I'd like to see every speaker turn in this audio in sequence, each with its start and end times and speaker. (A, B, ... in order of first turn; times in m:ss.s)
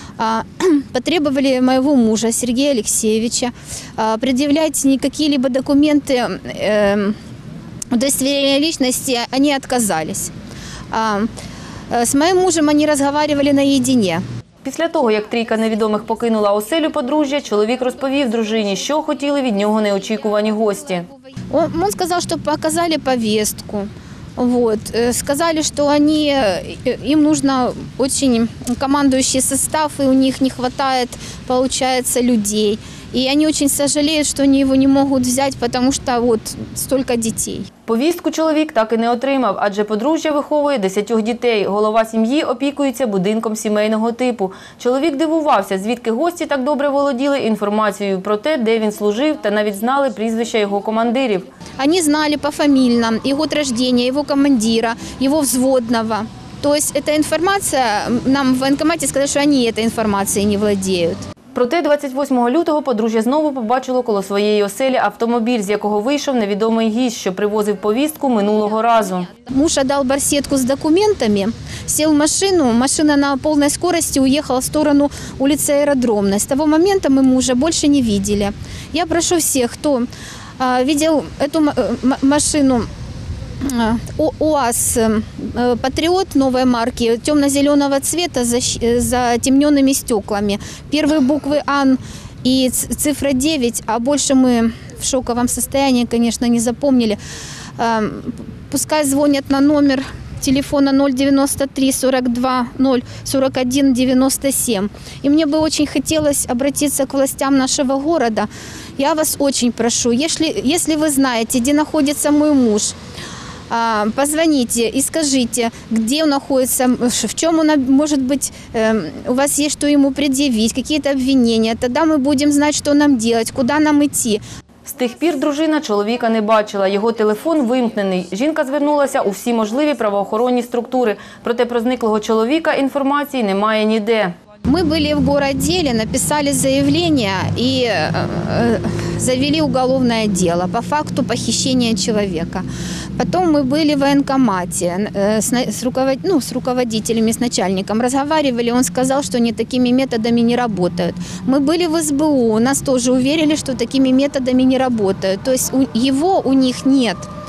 0:00.2-0:07.2 A
0:07.9-0:10.3 A
0:10.9-0:11.3 A
0:11.9-0:14.2 A
0:14.6-0:21.1 B
0:21.5-0:37.7 A
0:37.8-0:51.5 B
0:51.8-1:01.2 A
1:01.5-1:09.3 B
1:09.4-1:20.1 A
1:20.6-1:22.9 A
1:23.6-1:37.2 A
1:37.8-1:53.0 A
1:53.7-2:04.4 A
2:04.8-2:14.3 B
2:14.6-2:22.6 A
2:23.2-2:37.3 A